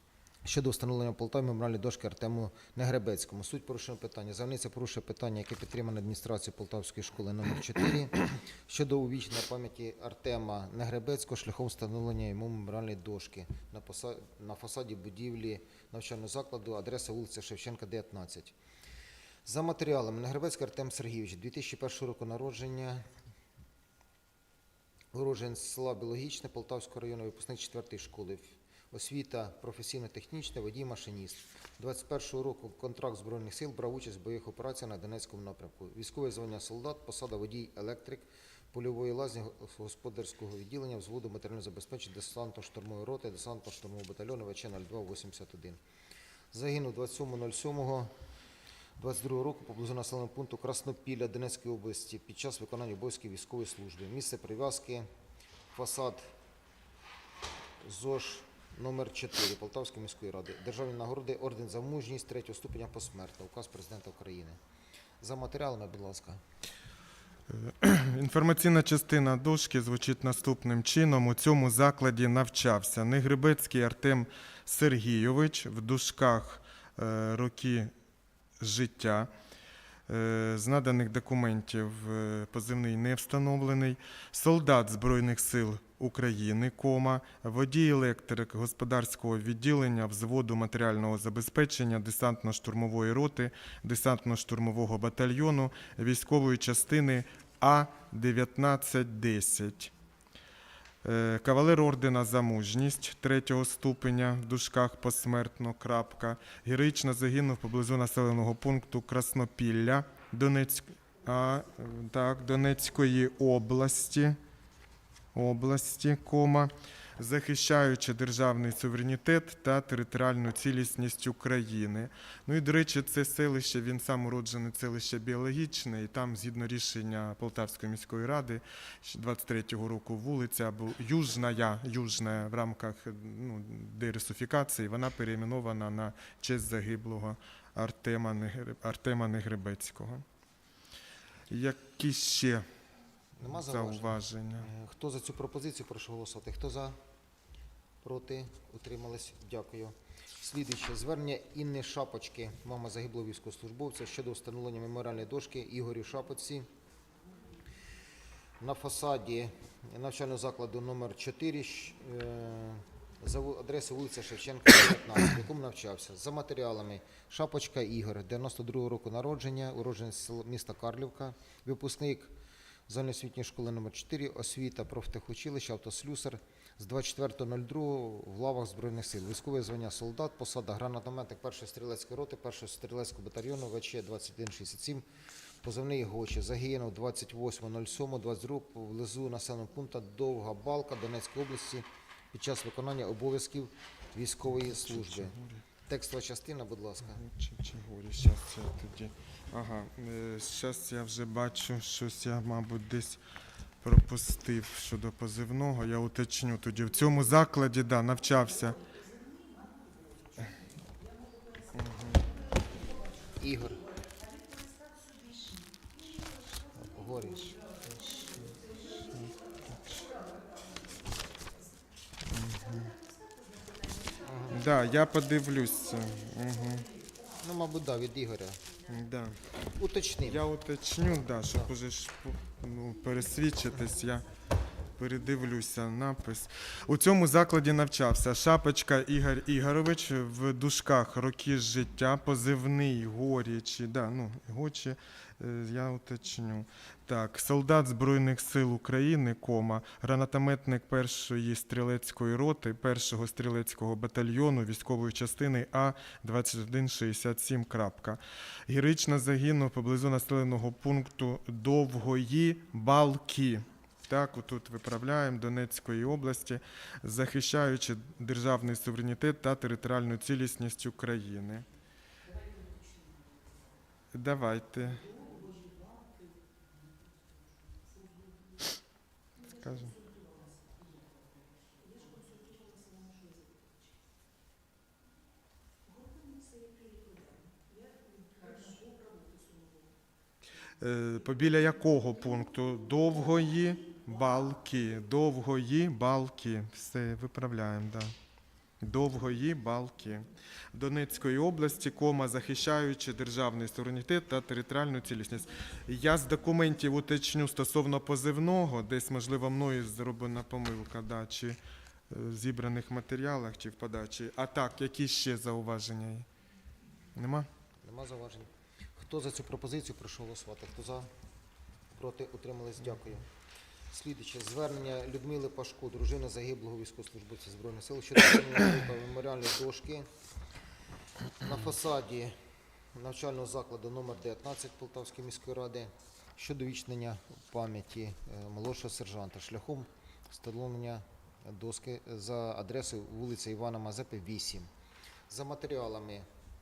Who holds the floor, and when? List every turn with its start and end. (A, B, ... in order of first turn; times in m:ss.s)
0:00.4-0:18.6 A
0:19.4-0:23.1 A
0:25.1-0:45.8 A
0:46.5-0:48.1 A
0:49.0-0:55.1 A
0:55.7-0:56.3 A
0:57.8-1:04.6 A
1:05.2-1:06.4 A
1:07.5-1:17.9 B
1:18.6-1:19.3 B
1:20.1-1:39.9 B
1:41.0-1:54.4 B
1:55.3-2:20.2 B
2:21.5-2:22.7 B
2:23.4-2:27.0 A
2:23.4-2:24.7 B
2:28.0-2:36.7 A
2:38.6-2:52.3 A
2:52.9-3:05.0 A
3:05.6-3:17.2 A
3:14.5-3:15.7 B
3:17.0-3:23.2 B
3:23.8-3:28.8 B
3:31.7-3:32.3 B
3:33.3-3:33.8 A
3:36.7-3:37.6 A
3:37.9-3:40.1 B
3:42.2-3:43.0 B
3:44.2-3:44.6 A
3:44.5-3:46.9 B
3:47.4-3:48.8 A
3:48.8-3:49.4 B
3:49.8-3:50.5 A
3:50.2-3:54.3 B
3:55.0-4:31.7 B
4:34.1-4:35.1 B
4:39.4-4:40.0 B
4:50.8-4:58.1 B
4:58.8-5:16.3 B
5:17.1-5:17.5 B
5:17.8-5:21.1 A
5:22.0-5:23.3 A
5:23.9-5:30.1 A
5:31.4-5:32.4 A
5:32.9-5:44.7 A
5:45.3-5:46.3 A